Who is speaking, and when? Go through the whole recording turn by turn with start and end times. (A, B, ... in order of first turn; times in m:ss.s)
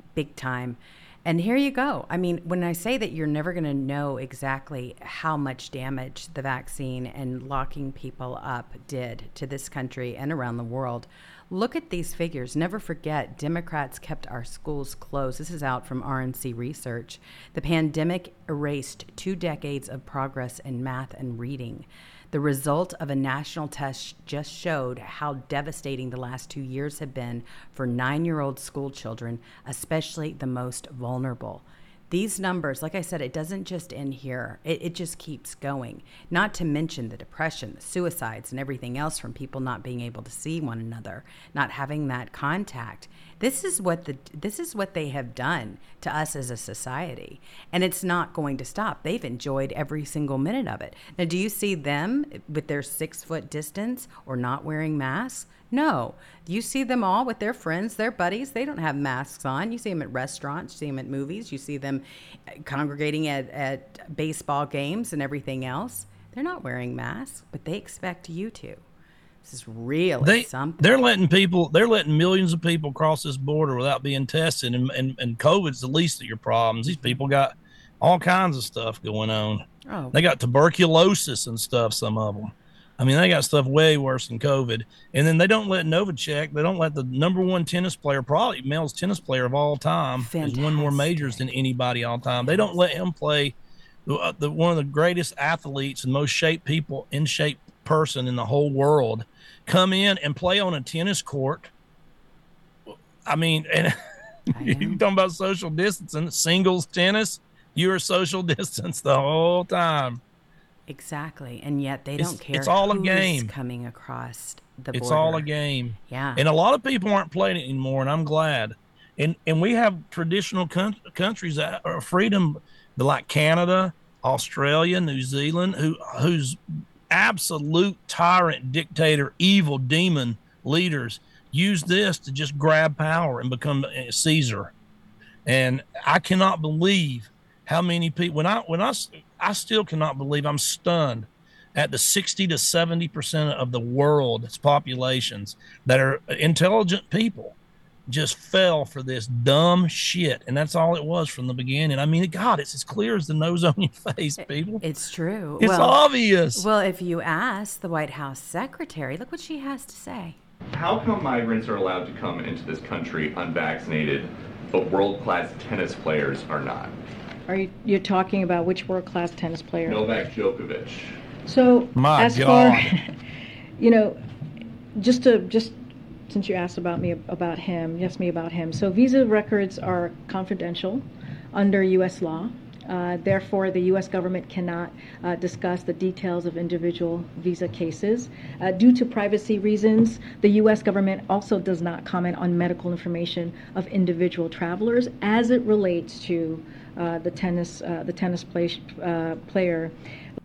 0:00.1-1:08.8 A
1:09.4-1:10.8 A
1:10.2-1:33.5 B
1:19.8-1:20.2 A
1:30.2-1:31.4 A
1:32.4-1:32.7 A
1:34.0-1:41.7 B
1:42.9-1:44.0 B
1:44.5-1:50.2 B
1:44.5-1:45.0 A
1:50.9-1:55.5 A
1:52.2-1:53.5 B
1:54.9-2:06.6 B
1:56.1-1:56.4 A
2:07.1-2:14.7 B
2:15.4-2:27.6 B
2:28.1-2:34.8 B
2:34.8-2:36.0 A
2:35.6-2:36.6 B
2:36.5-2:40.4 A
2:40.7-2:46.9 C
2:47.5-2:50.0 D
2:49.8-2:51.2 C
2:51.5-2:53.1 D
2:51.9-2:52.9 B
2:53.8-2:54.2 D
2:55.0-2:55.8 D
2:56.3-3:19.9 D